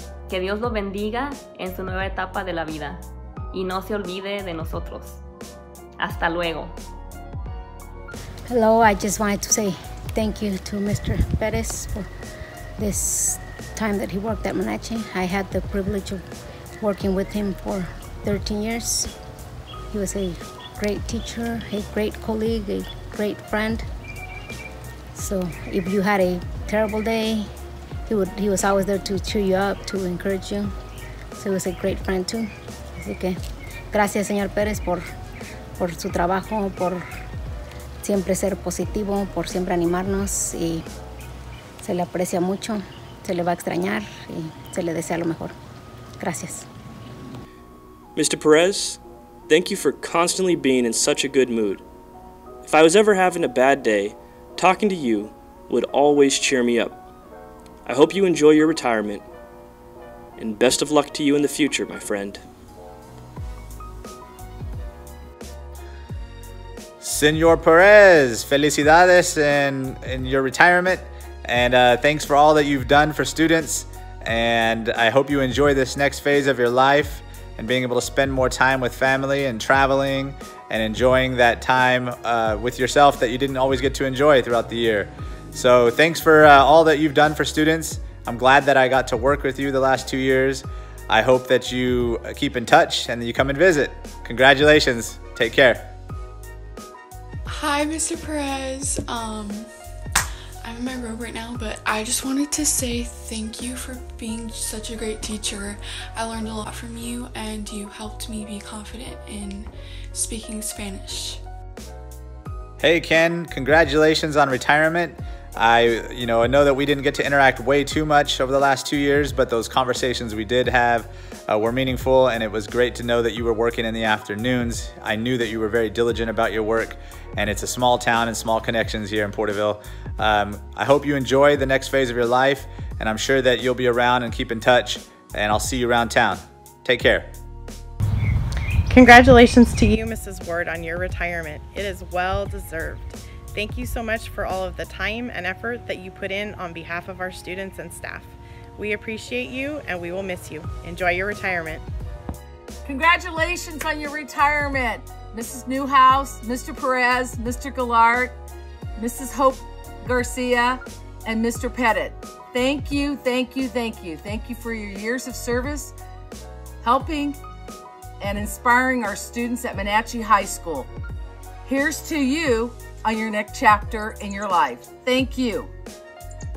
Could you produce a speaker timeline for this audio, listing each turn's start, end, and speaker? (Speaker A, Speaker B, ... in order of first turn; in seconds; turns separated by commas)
Speaker A: 0.3-5.2, Speaker A: 6.0-6.8, Speaker B: 8.4-12.1, Speaker B: 12.8-16.2, Speaker B: 16.8-19.1, Speaker B: 19.9-23.9, Speaker B: 25.1-27.5, Speaker B: 28.1-30.7, Speaker B: 31.4-33.4, Speaker B: 33.9-35.1, Speaker B: 35.8-37.0, Speaker B: 38.0-40.8, Speaker B: 41.8-45.5, Speaker B: 46.2-46.7, Speaker C: 48.1-51.8, Speaker C: 52.6-57.0, Speaker C: 57.9-59.2, Speaker C: 60.4-62.4, Speaker D: 67.0-95.9, Speaker E: 97.5-99.7, Speaker E: 100.6-111.4, Speaker D: 112.8-137.3, Speaker F: 138.9-151.8, Speaker G: 152.8-158.3, Speaker G: 158.9-165.9, Speaker G: 166.8-167.4, Speaker G: 168.2-170.9, Speaker G: 171.6-175.7